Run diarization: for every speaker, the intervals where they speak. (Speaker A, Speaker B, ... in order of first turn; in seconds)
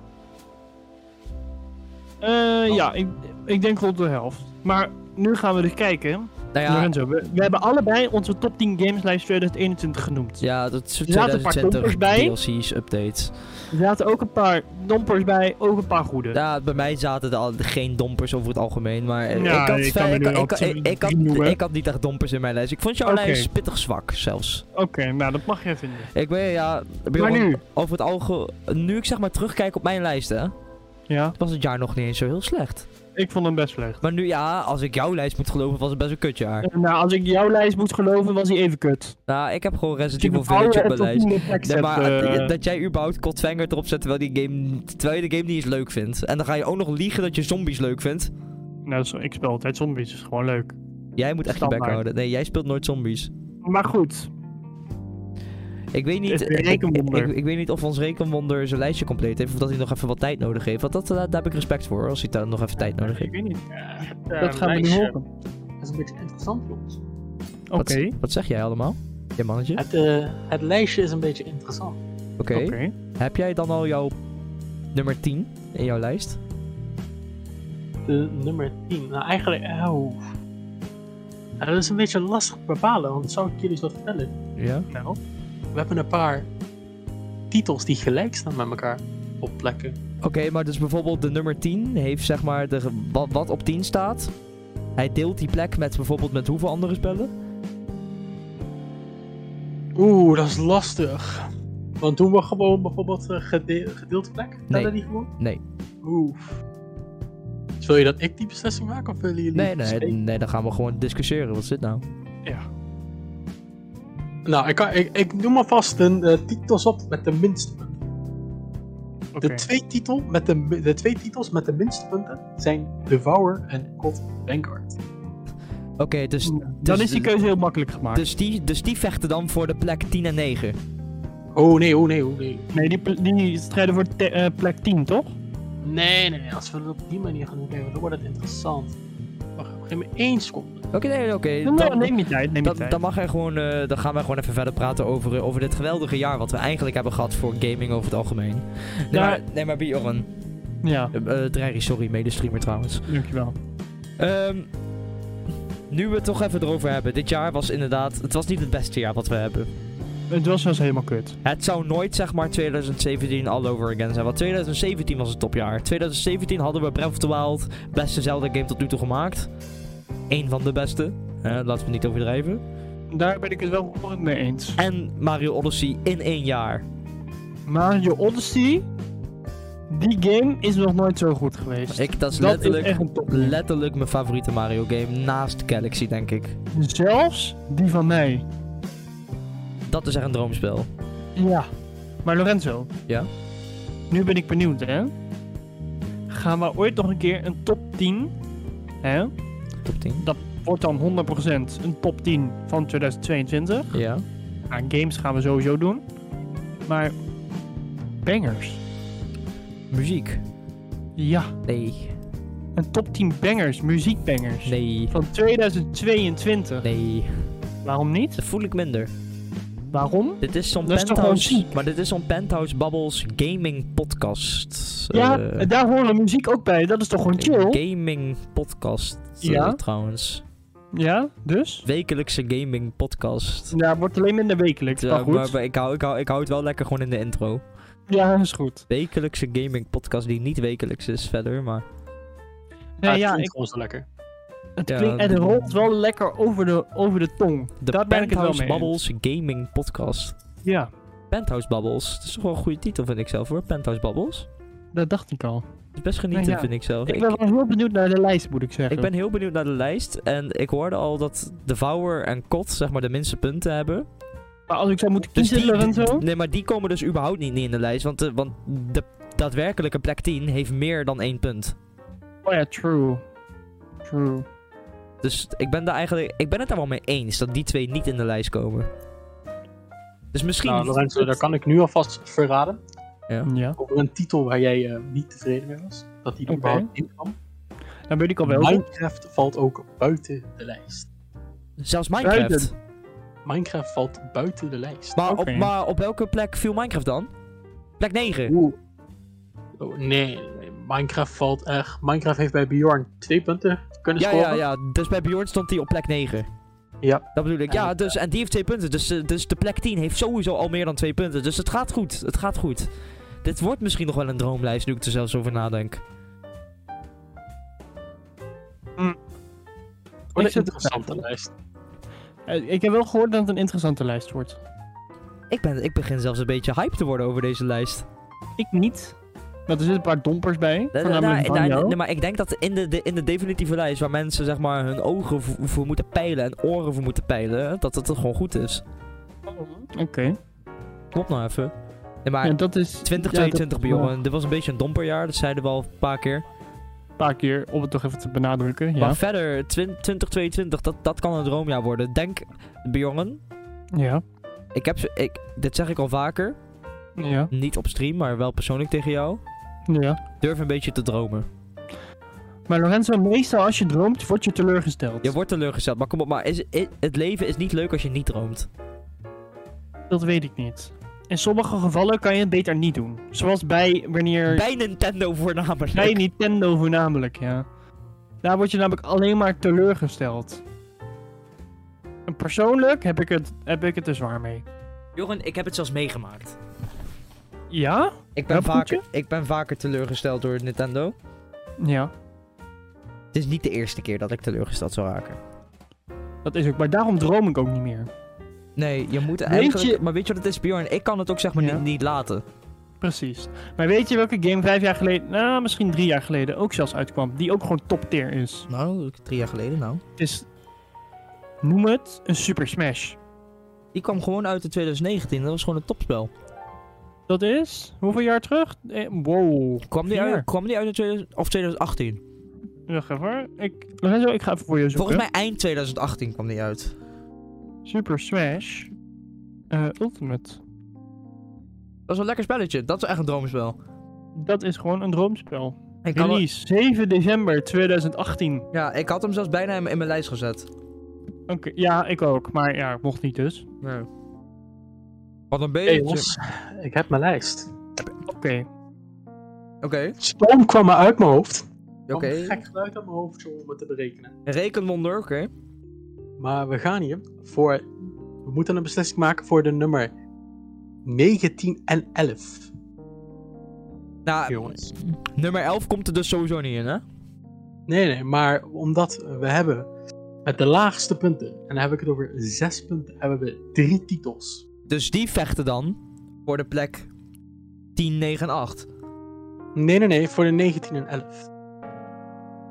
Speaker A: 2.2-10.4, 11.1-12.3, 13.7-16.4, 19.3-21.6, 23.0-23.5, 24.7-26.1, 27.2-27.6, 31.1-31.4, 33.1-34.0, 36.6-39.1, 40.2-42.5, 48.9-50.7, 51.5-52.0, 53.6-54.3, 56.3-57.3, 62.9-63.6, 64.4-65.2, 67.7-68.2, 72.5-72.9, 84.9-85.2, 119.3-119.7, 126.4-128.3, 132.7-135.3, 141.6-143.0, 149.1-149.4, 150.8-151.1, 153.1-153.5, 160.3-161.4, 173.1-174.8, 177.7-178.9, 179.9-183.6, 186.7-188.4, 191.3-191.7, 192.2-192.9, 194.1-195.1, 196.3-198.3, 199.0-199.3, 200.2-203.9, 204.7-206.0, 206.8-207.1, 208.2-208.8, 211.2-211.5, 212.8-216.8, 217.8-218.4, 219.9-221.7, 225.1-227.8, 229.4-229.8, 230.9-231.8, 233.7-235.5, 238.1-238.8, 243.0-243.5, 244.8-249.0, 250.6-250.9, 254.9-255.7, 256.3-259.1, 264.7-266.2, 272.4-273.2, 274.0-274.4, 283.4-283.8, 286.5-286.9, 288.1-288.9, 292.2-292.7, 295.2-295.7, 320.4-321.2, 322.5-324.6, 328.6-329.1, 329.7-332.0, 339.5-340.4, 342.4-344.1, 347.2-349.2, 353.9-354.2, 357.2-357.5, 359.9-360.2, 362.7-365.3, 370.1-374.6, 375.9-377.6, 378.4-380.6, 382.3-384.6, 387.7-389.0, 391.8-392.1, 396.4-398.1, 399.4-400.0, 401.6-401.8, 403.0-408.7, 410.2-410.4, 411.6-413.2, 417.3-420.4, 422.9-425.2, 427.9-428.9, 429.7-430.6, 434.4-438.6, 441.5-443.6, 448.3-448.7
Speaker B: 6.5-6.9, 10.4-13.3, 16.3-24.6, 26.1-30.5, 31.4-32.9, 34.0-36.7, 39.3-48.3, 51.2-53.3, 55.9-63.3, 67.8-69.8, 72.4-74.1, 74.9-76.4, 84.6-84.9, 90.2-94.3, 95.0-97.3, 104.7-105.6, 109.5-112.0, 126.0-127.3, 128.1-130.8, 140.9-150.3, 151.1-153.0, 154.2-154.7, 155.9-159.7, 161.4-169.5, 170.3-172.6, 174.8-176.8, 181.9-186.6, 189.9-190.9, 199.8-200.2, 203.9-204.2, 209.9-210.4, 211.7-212.2, 214.7-215.1, 216.8-217.5, 218.4-219.1, 220.4-225.7, 227.4-230.4, 231.8-233.7, 234.9-237.6, 238.9-241.8, 244.9-245.6, 247.8-250.3, 251.3-254.5, 255.9-257.3, 258.9-264.1, 265.3-271.8, 275.2-278.9, 280.3-281.3, 291.8-292.7, 295.1-297.3, 298.0-298.5, 304.2-306.5, 307.3-312.9, 313.4-316.0, 325.5-328.1, 330.9-338.8, 341.1-341.7, 342.2-346.4, 349.0-353.4, 354.7-356.6, 357.5-359.4, 360.4-361.5, 365.2-368.7, 374.5-376.2, 385.1-386.6, 388.4-391.1, 393.3-395.4, 398.8-402.4, 408.7-410.0, 413.9-416.3, 419.9-422.2, 424.9-426.9, 432.1-433.8, 436.0-436.4, 438.7-440.7, 443.8-444.1, 445.5-446.3, 449.8-450.1, 452.1-452.6, 454.4-455.5, 464.2-467.0, 474.9-477.1, 477.9-478.9
Speaker C: 63.7-65.2, 65.8-67.0, 69.8-72.0, 78.0-80.2, 81.6-84.3, 85.7-86.5, 87.5-90.0, 100.0-105.3, 106.0-106.6, 107.8-110.2, 114.5-118.0, 119.4-125.0, 131.5-132.8, 135.8-139.0, 139.6-140.9, 243.1-244.1, 280.6-282.8, 283.8-287.4, 288.4-291.1, 293.4-295.2, 298.5-298.8, 299.8-304.6, 307.0-308.1, 320.3-321.5, 445.9-447.7, 450.2-454.3, 456.4-457.9, 458.4-460.1, 461.0-462.7, 464.5-464.9, 467.9-469.9, 470.4-474.6, 479.7-481.5